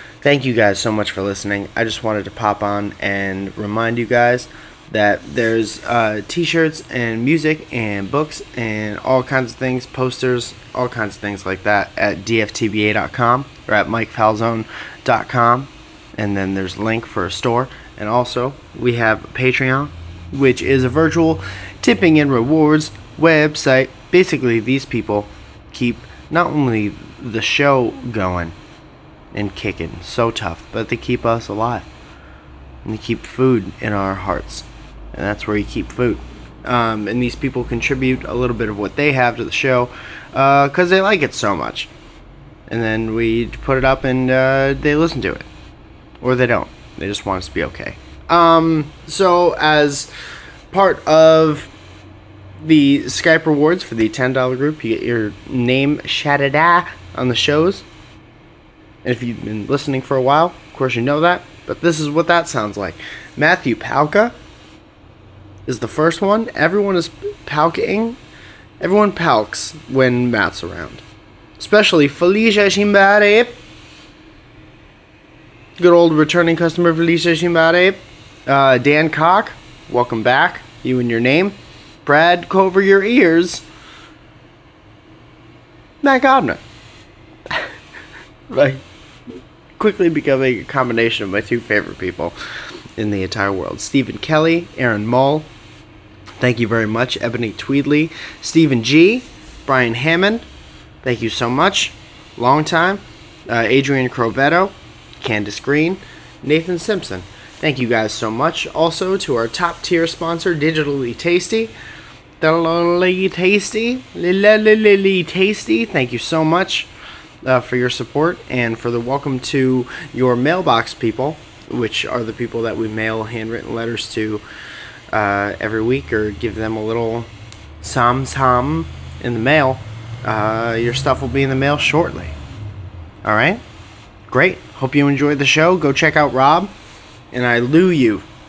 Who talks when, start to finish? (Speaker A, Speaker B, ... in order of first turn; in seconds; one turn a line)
Speaker A: 0.2-28.5
Speaker A: 29.3-31.9
Speaker A: 32.8-41.9
Speaker A: 42.7-45.5
Speaker A: 46.2-50.1
Speaker A: 50.7-51.7
Speaker A: 52.6-57.8
Speaker A: 59.0-64.3
Speaker A: 65.7-68.2
Speaker A: 68.8-71.0
Speaker A: 71.6-73.6
Speaker A: 75.8-83.6
Speaker A: 86.0-86.6
Speaker A: 88.5-88.8
Speaker A: 89.8-92.3
Speaker A: 93.0-95.5
Speaker A: 96.4-100.5
Speaker A: 101.0-111.7
Speaker A: 112.4-116.9
Speaker A: 117.4-124.4
Speaker A: 125.1-127.3
Speaker A: 127.8-132.4
Speaker A: 133.2-133.6
Speaker A: 134.3-136.7
Speaker A: 137.3-138.2